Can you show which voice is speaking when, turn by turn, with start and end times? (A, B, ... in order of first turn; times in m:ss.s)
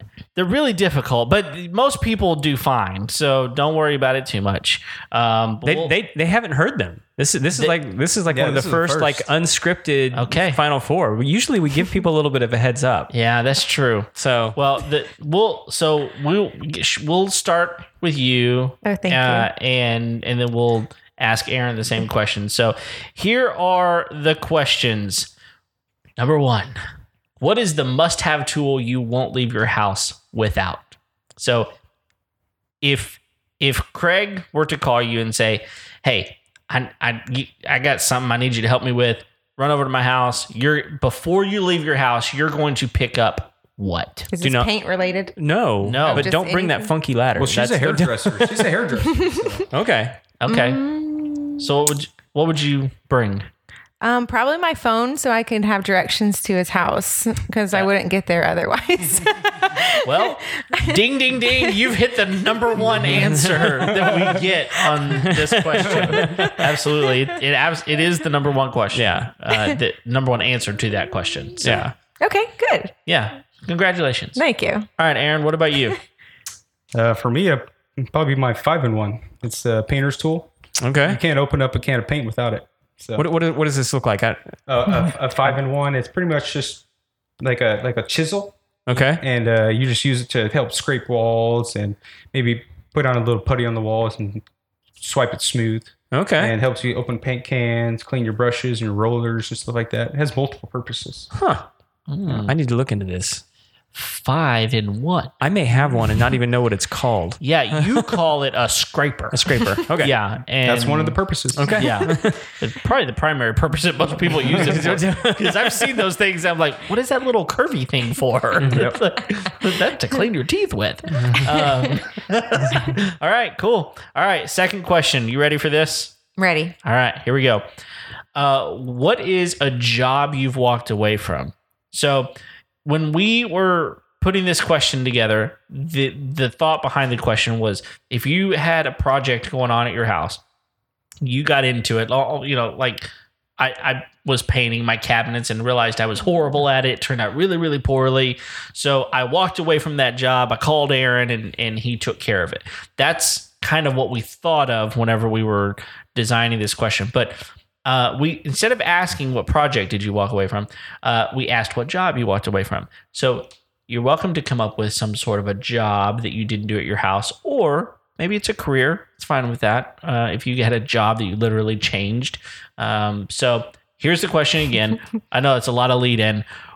0:00.3-0:05.9 A
0:05.6-0:13.1 B
0:08.3-0:09.3 C
0:10.1-0:10.6 A
0:13.1-0:25.3 A
0:14.1-0:14.6 B
0:18.8-0:19.5 D
0:26.2-0:26.8 A
0:27.4-0:31.7 A
0:32.8-0:44.3 A
0:44.3-0:45.4 D
0:44.4-0:44.7 B
0:45.4-0:48.7 B
0:45.8-0:46.3 A
0:46.0-0:46.9 D
0:47.4-0:49.7 C
0:49.0-0:49.5 D
0:49.7-0:50.2 B
0:50.4-0:50.8 A
0:50.5-0:51.7 D
0:51.6-0:53.5 A
0:54.0-1:01.8 D
1:00.0-1:11.8 A
1:03.1-1:04.1 B
1:05.2-1:06.6 B
1:06.2-1:07.0 D
1:08.9-1:09.3 B
1:11.6-1:11.9 B
1:12.2-1:12.9 D
1:13.0-1:14.4 A
1:14.4-1:14.9 D
1:15.0-1:16.0 A
1:16.9-1:20.5 C
1:20.8-1:21.2 B
1:21.0-1:23.2 C
1:23.2-1:24.6 B
1:24.7-1:26.8 C
1:27.4-1:34.4 C
1:28.9-1:29.2 B
1:35.0-1:41.3 C
1:36.1-1:36.5 B
1:41.3-1:41.7 B
1:42.1-1:42.5 A
1:42.2-1:43.4 B
1:43.9-1:45.3 A
1:45.4-1:48.1 B
1:47.4-1:51.2 A
1:49.3-1:50.1 B
1:50.6-1:51.9 C
1:51.5-1:52.6 B
1:51.7-2:06.2 A
1:54.4-1:56.0 B
1:58.6-1:58.9 B
1:58.6-1:59.0 C
2:01.1-2:01.5 B
2:06.4-2:06.7 D
2:06.8-2:07.6 A
2:08.3-2:12.3 A
2:12.8-2:20.4 A
2:21.2-2:56.4 A